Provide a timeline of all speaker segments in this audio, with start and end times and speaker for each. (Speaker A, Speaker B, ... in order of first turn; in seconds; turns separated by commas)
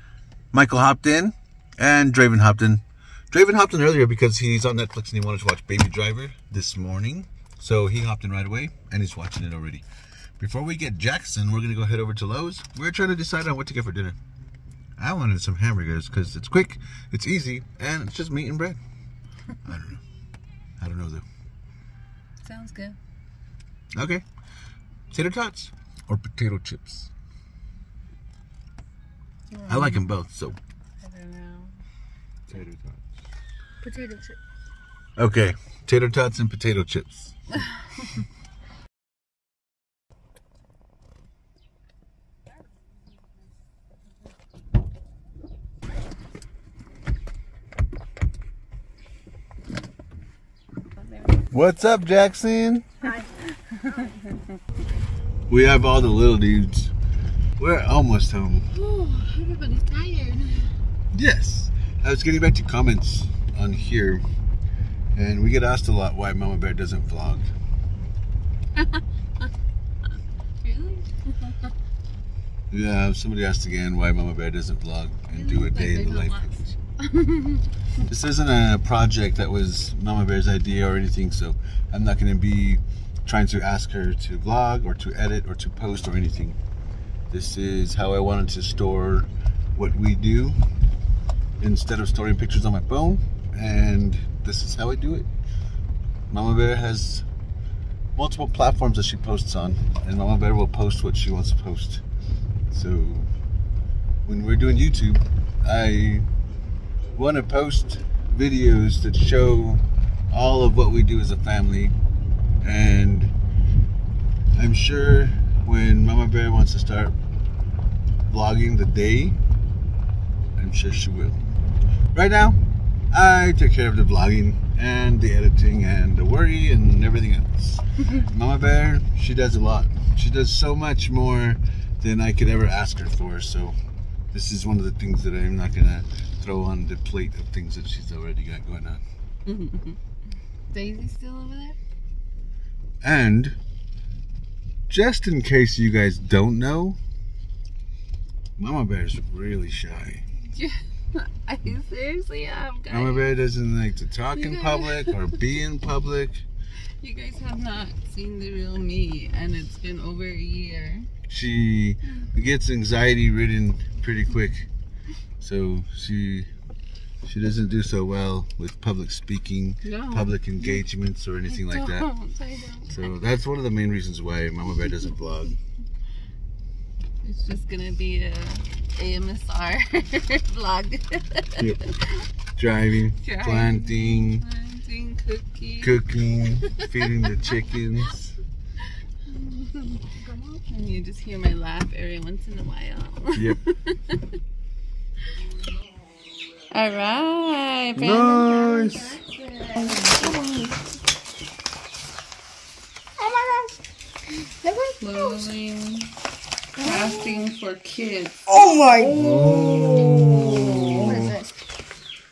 Speaker A: 0.5-9.8, Speaker A: 10.4-14.2, Speaker A: 15.0-18.8, Speaker A: 19.6-20.0, Speaker A: 20.8-21.2, Speaker B: 22.4-23.0, Speaker A: 23.9-24.2, Speaker A: 25.1-27.1, Speaker B: 29.5-30.1, Speaker A: 29.7-30.6, Speaker B: 31.0-31.7, Speaker A: 32.5-33.0, Speaker C: 33.8-34.4, Speaker A: 35.2-37.3, Speaker B: 51.0-51.5, Speaker A: 51.5-52.9, Speaker C: 53.0-53.4, Speaker A: 55.5-56.9, Speaker A: 57.6-58.7, Speaker B: 58.7-60.7, Speaker A: 61.1-64.2, Speaker A: 65.1-67.5, Speaker B: 70.6-71.5, Speaker A: 72.7-76.7, Speaker B: 75.3-77.7, Speaker A: 78.0-86.6, Speaker A: 87.3-90.6, Speaker A: 91.6-95.3, Speaker A: 96.3-97.2, Speaker A: 98.1-102.0, Speaker A: 102.7-103.3, Speaker A: 104.2-106.3, Speaker A: 107.1-111.9, Speaker A: 112.6-113.3, Speaker A: 114.5-117.1, Speaker A: 118.3-119.4, Speaker A: 120.6-121.4, Speaker A: 122.1-133.8, Speaker A: 134.3-139.0, Speaker B: 139.4-140.0, Speaker B: 140.7-141.8, Speaker A: 143.0-143.6, Speaker A: 144.9-147.0, Speaker A: 148.6-150.2, Speaker B: 150.5-153.3, Speaker A: 152.9-156.4, Speaker B: 154.3-155.2, Speaker B: 157.0-161.1, Speaker A: 161.3-164.7, Speaker A: 165.4-166.5, Speaker A: 167.2-172.1, Speaker B: 169.8-170.8, Speaker B: 171.5-173.1, Speaker A: 172.9-175.6, Speaker B: 177.2-182.2, Speaker A: 181.6-181.8, Speaker A: 182.5-184.4, Speaker B: 183.2-186.0, Speaker A: 185.8-188.3, Speaker B: 186.6-187.0, Speaker B: 189.3-194.2, Speaker C: 190.2-190.6, Speaker A: 193.3-193.6, Speaker B: 196.7-200.3, Speaker A: 197.9-199.2, Speaker C: 199.7-200.8, Speaker C: 203.2-203.8, Speaker C: 204.6-205.4, Speaker B: 205.0-206.1, Speaker B: 206.8-208.4, Speaker C: 206.8-207.2, Speaker A: 208.5-211.3, Speaker C: 208.5-211.6